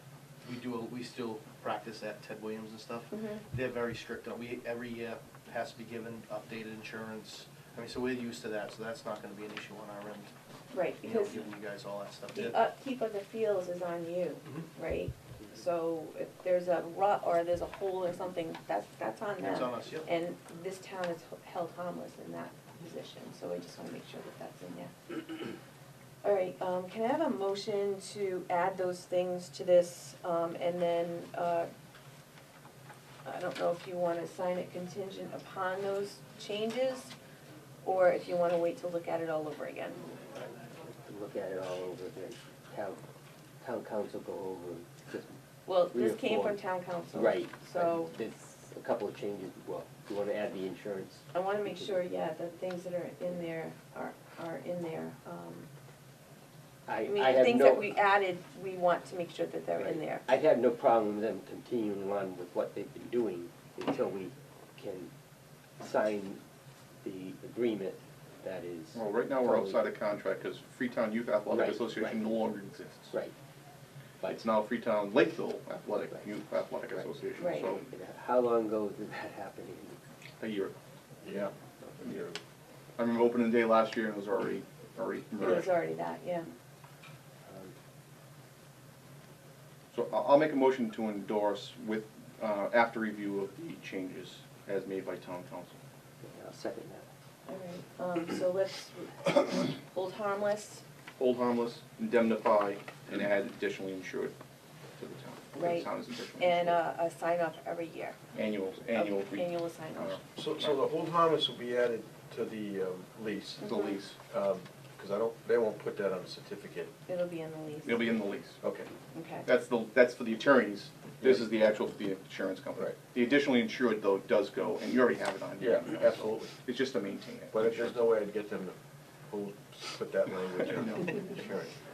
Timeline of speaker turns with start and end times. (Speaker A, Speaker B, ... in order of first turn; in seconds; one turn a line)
Speaker A: 0.4-10.3
Speaker B: 3.1-3.4
Speaker B: 10.7-11.4
Speaker A: 10.9-12.6
Speaker B: 12.3-25.5
Speaker A: 19.4-20.1
Speaker B: 26.2-31.7
Speaker B: 33.2-37.1
Speaker B: 37.8-40.0
Speaker C: 40.9-43.0
Speaker C: 43.6-45.4
Speaker B: 45.6-48.1
Speaker C: 45.9-46.6
Speaker C: 47.1-51.2
Speaker B: 51.3-55.7
Speaker C: 56.9-57.9
Speaker B: 57.0-60.3
Speaker C: 59.8-65.1
Speaker C: 65.8-66.4
Speaker C: 67.0-69.8
Speaker D: 68.9-73.2
Speaker C: 71.5-72.2
Speaker D: 74.2-77.8
Speaker B: 77.4-77.8
Speaker C: 77.8-80.0
Speaker D: 80.4-80.7
Speaker E: 81.2-82.3
Speaker D: 82.0-82.3
Speaker D: 83.0-85.8
Speaker B: 85.4-86.5
Speaker C: 87.5-87.7
Speaker D: 89.9-95.8
Speaker C: 96.2-97.1
Speaker B: 97.5-100.8
Speaker D: 101.2-104.3
Speaker D: 105.0-106.8
Speaker B: 105.5-108.2
Speaker D: 108.3-110.8
Speaker B: 108.9-110.2
Speaker E: 110.3-116.9
Speaker B: 113.6-114.0
Speaker D: 113.6-114.1
Speaker B: 117.1-118.3
Speaker D: 117.8-118.6
Speaker E: 118.6-118.9
Speaker B: 119.1-119.5
Speaker D: 119.4-128.1
Speaker E: 125.6-126.5
Speaker E: 127.5-128.8
Speaker E: 129.3-131.7
Speaker D: 130.8-131.2